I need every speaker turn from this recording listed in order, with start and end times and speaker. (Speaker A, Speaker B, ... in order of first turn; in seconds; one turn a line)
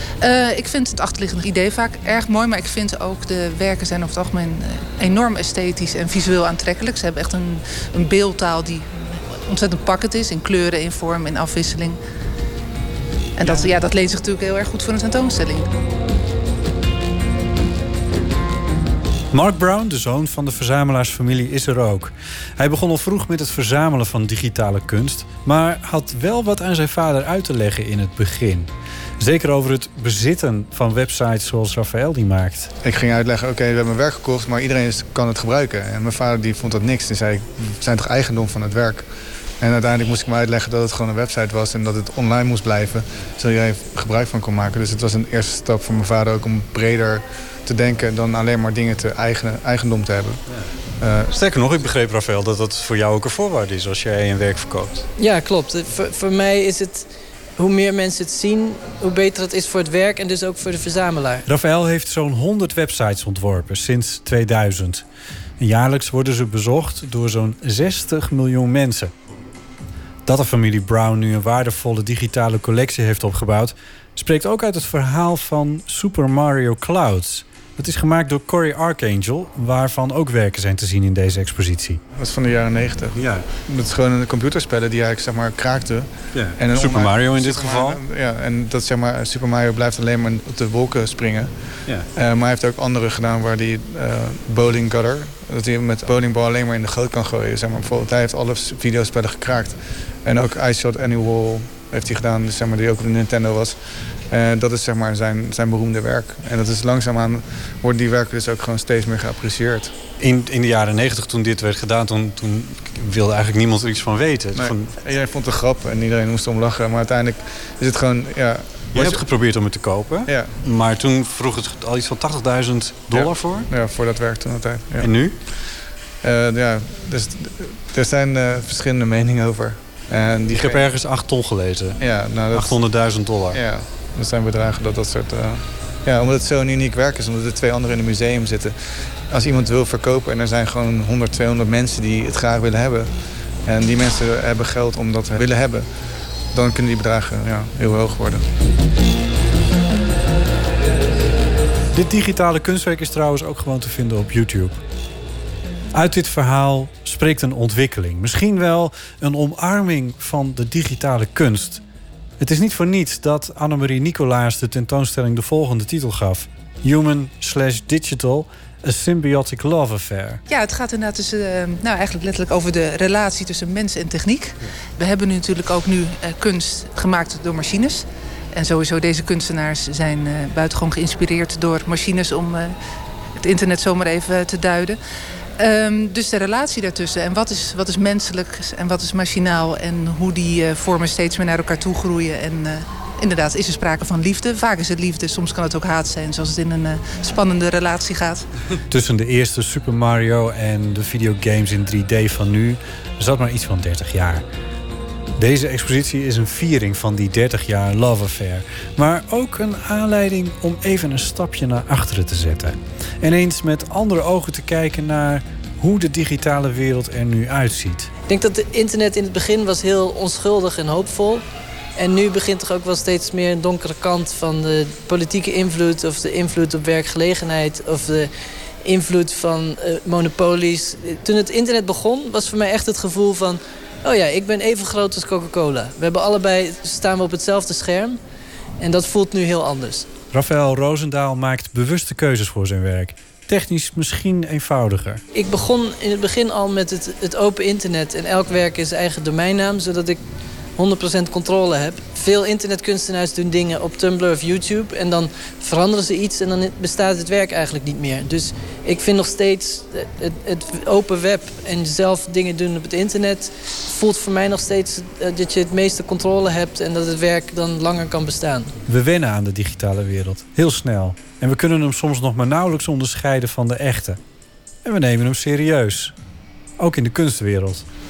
Speaker A: 0.2-12.0
Speaker A: 13.4-15.7
Speaker B: 19.3-32.7
Speaker C: 32.8-50.4
Speaker C: 51.0-51.4
Speaker B: 51.3-55.1
Speaker D: 55.2-61.5
Speaker B: 61.5-65.0
Speaker B: 65.6-69.1
Speaker B: 70.2-82.0
Speaker C: 82.1-109.9
Speaker B: 83.2-83.5
Speaker B: 86.3-88.0
Speaker B: 110.2-115.0
Speaker C: 114.5-119.3
Speaker B: 118.9-123.7
Speaker C: 120.3-120.6
Speaker C: 123.1-130.9
Speaker B: 125.0-125.4
Speaker B: 130.5-132.0
Speaker C: 132.0-148.5
Speaker B: 132.5-133.6
Speaker B: 151.9-154.8
Speaker B: 155.9-161.8
Speaker B: 162.4-170.4
Speaker A: 170.5-182.8
Speaker A: 183.4-185.0
Speaker A: 185.6-198.5
Speaker B: 198.9-204.4
Speaker B: 205.4-218.1
Speaker D: 218.3-221.4
Speaker D: 222.0-228.3
Speaker D: 228.8-238.2
Speaker D: 238.8-240.2
Speaker B: 240.3-245.2
Speaker D: 245.3-250.2
Speaker D: 250.8-268.7
Speaker B: 268.9-274.2
Speaker B: 274.8-276.1
Speaker B: 276.8-277.9